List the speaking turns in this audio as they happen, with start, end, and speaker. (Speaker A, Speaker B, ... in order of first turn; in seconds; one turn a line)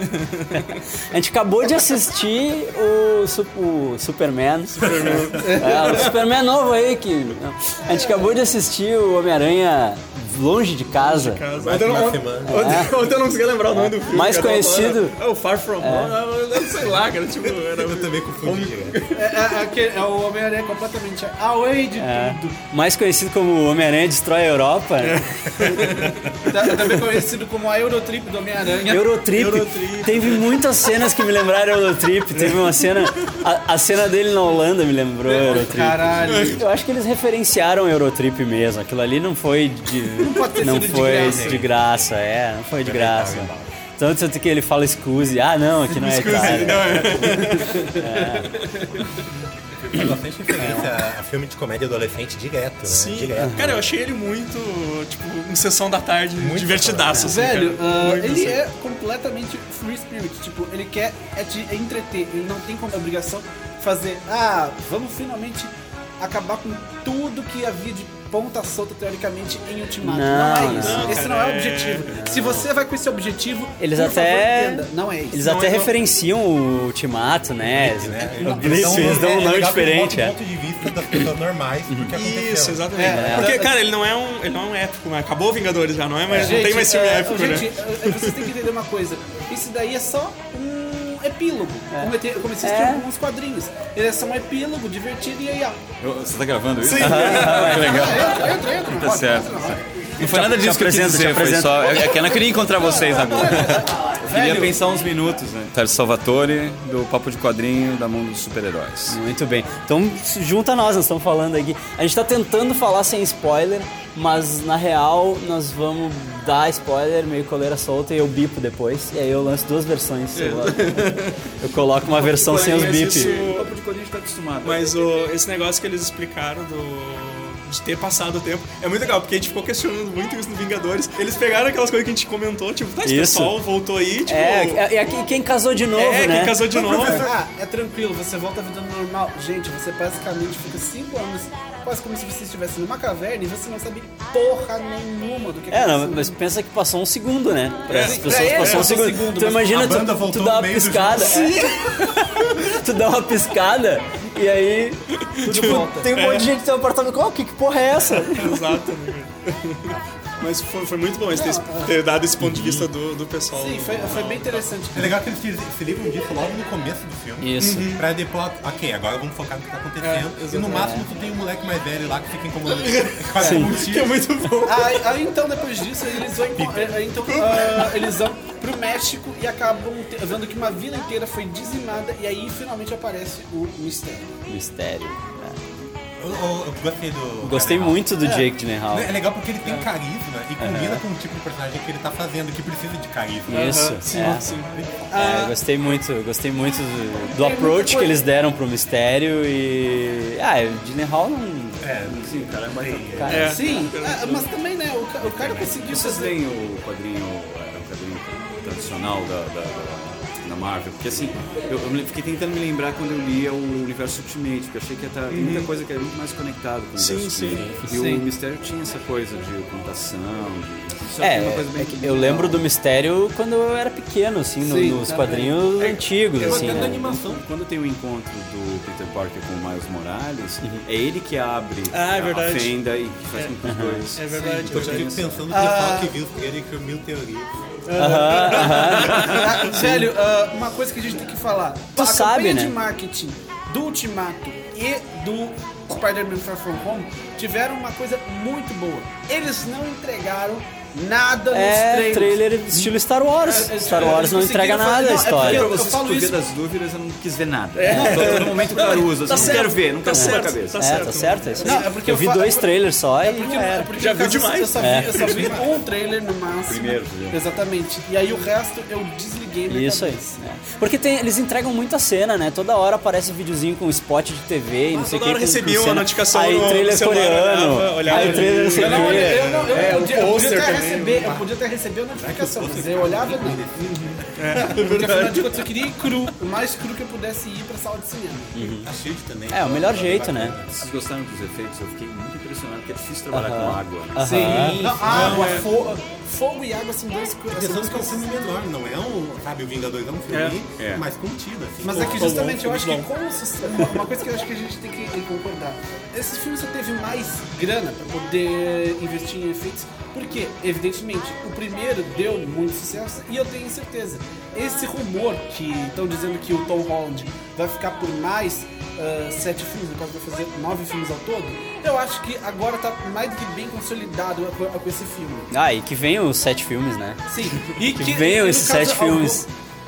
Speaker A: 0.1-0.8
Speaker B: 1.1-11.4
Speaker A: 4.7-6.2
Speaker C: 5.4-6.1
Speaker C: 7.9-8.3
Speaker A: 10.9-19.5
Speaker D: 11.5-13.1
Speaker B: 12.5-12.9
Speaker B: 13.7-15.2
Speaker B: 15.8-16.1
Speaker D: 17.6-19.0
Speaker C: 19.1-22.6
Speaker B: 22.0-25.7
Speaker A: 25.0-27.0
Speaker C: 26.4-29.1
Speaker B: 28.9-48.6
Speaker A: 29.3-31.2
Speaker A: 32.4-33.3
Speaker C: 35.3-36.6
Speaker A: 36.3-36.6
Speaker C: 40.2-41.6
Speaker D: 40.6-42.1
Speaker D: 42.8-43.7
Speaker A: 45.9-48.4
Speaker D: 49.8-53.9
Speaker B: 50.6-50.9
Speaker A: 52.9-58.6
Speaker B: 53.4-53.8
Speaker D: 56.4-57.4
Speaker C: 57.3-75.9
Speaker B: 70.0-71.2
Speaker A: 70.6-72.2
Speaker B: 72.1-72.7
Speaker B: 73.8-80.3
Speaker D: 77.6-83.1
Speaker C: 78.4-79.0
Speaker A: 78.7-79.0
Speaker A: 82.1-88.5
Speaker C: 82.9-83.8
Speaker B: 83.1-83.6
Speaker B: 86.3-86.6
Speaker C: 86.3-95.8
Speaker B: 91.9-93.0
Speaker E: 96.0-109.2
Speaker B: 97.0-98.2
Speaker A: 97.0-97.7
Speaker C: 97.5-99.8
Speaker B: 100.2-102.4
Speaker C: 102.6-104.8
Speaker B: 109.1-123.4
Speaker A: 120.3-121.4
Speaker A: 122.1-123.7
Speaker E: 122.1-125.0
Speaker A: 124.6-134.9
Speaker B: 133.0-133.6
Speaker B: 134.2-136.6
Speaker A: 135.9-137.3
Speaker C: 136.7-146.3
Speaker B: 145.7-158.6
Speaker A: 147.9-148.9
Speaker C: 147.9-150.0
Speaker D: 149.7-151.6
Speaker A: 155.2-156.5
Speaker C: 155.4-156.1
Speaker A: 158.0-164.7
Speaker C: 161.3-162.0
Speaker B: 162.4-162.9
Speaker C: 163.5-165.2
Speaker D: 164.9-174.2
Speaker B: 167.4-167.9
Speaker A: 167.6-168.1
Speaker A: 170.0-170.9
Speaker B: 170.7-171.0
Speaker A: 172.7-175.1
Speaker B: 173.4-173.7
Speaker C: 174.6-184.3
Speaker D: 176.5-177.3
Speaker A: 177.2-178.1
Speaker B: 184.5-185.6
Speaker D: 186.2-188.2
Speaker B: 187.4-189.1
Speaker C: 188.2-188.5
Speaker D: 188.9-195.1
Speaker B: 190.6-191.0
Speaker B: 193.5-194.6
Speaker A: 193.5-194.7
Speaker C: 195.1-195.6
Speaker B: 195.1-201.9
Speaker C: 197.3-198.2
Speaker D: 201.8-203.5
Speaker E: 202.1-203.5
Speaker B: 203.2-203.9
Speaker A: 203.3-204.5
Speaker C: 203.4-206.3
Speaker D: 205.2-205.7
Speaker E: 205.4-222.7
Speaker A: 215.3-215.7
Speaker A: 217.0-217.7
Speaker D: 217.5-217.8
Speaker C: 217.9-218.3
Speaker B: 221.2-227.0
Speaker C: 224.6-225.6
Speaker A: 225.8-226.7
Speaker D: 226.4-227.4
Speaker E: 226.7-235.5
Speaker A: 231.9-232.7
Speaker B: 233.7-234.0
Speaker A: 234.2-235.1
Speaker D: 234.7-237.5
Speaker C: 235.5-236.1
Speaker C: 237.9-252.5
Speaker B: 238.0-240.1
Speaker A: 238.2-239.6
Speaker B: 241.9-242.8
Speaker B: 251.5-255.7
Speaker C: 253.4-256.4
Speaker E: 255.3-261.3
Speaker A: 257.8-261.9
Speaker B: 257.9-258.2
Speaker C: 257.9-258.7
Speaker B: 259.3-263.9
Speaker C: 261.6-270.4
Speaker A: 263.9-265.5
Speaker B: 264.8-265.1
Speaker D: 265.1-265.8
Speaker E: 266.5-267.4
Speaker B: 269.7-279.5
Speaker A: 274.9-281.3
Speaker C: 278.1-283.6
Speaker D: 278.8-280.4
Speaker D: 281.1-281.4
Speaker D: 282.1-284.7
Speaker A: 283.9-285.6
Speaker C: 284.6-288.7
Speaker B: 288.5-288.9
Speaker D: 288.8-290.9
Speaker B: 289.5-290.6
Speaker E: 290.8-294.2
Speaker B: 293.3-294.9
Speaker C: 294.2-298.2
Speaker D: 294.3-295.7
Speaker A: 295.0-295.7
Speaker D: 297.5-302.4
Speaker E: 300.8-301.0
Speaker C: 301.8-325.5
Speaker A: 301.9-303.1
Speaker A: 303.8-304.0
Speaker B: 325.5-329.4
Speaker C: 327.3-329.5